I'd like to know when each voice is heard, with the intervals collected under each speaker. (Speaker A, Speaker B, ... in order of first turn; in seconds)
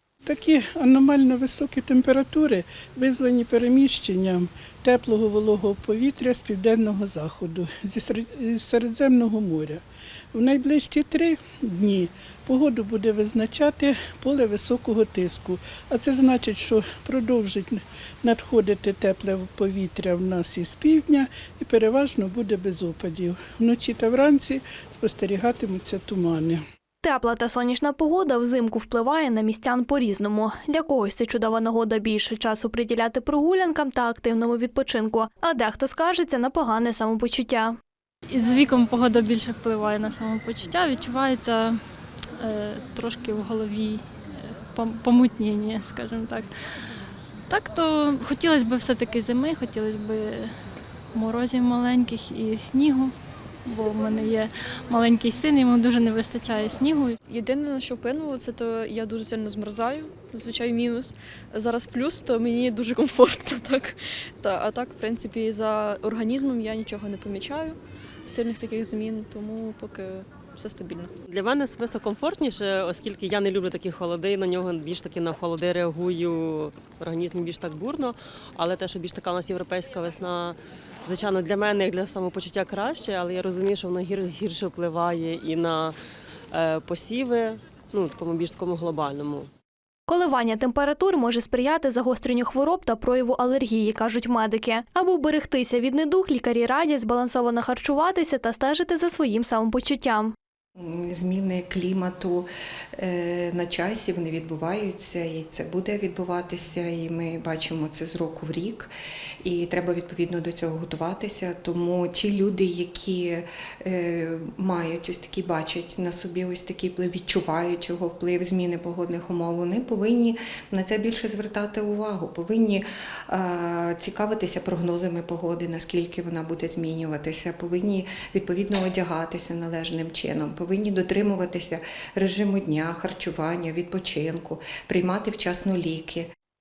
Speaker A: 0.2-26.6
Speaker B: 27.0-37.8, 90.1-100.3
Speaker C: 38.3-41.8, 42.4-46.5, 47.5-50.6, 51.1-57.1
Speaker D: 57.2-71.1
Speaker E: 71.3-86.0, 86.5-89.5
Speaker F: 100.8-108.9, 109.4-136.3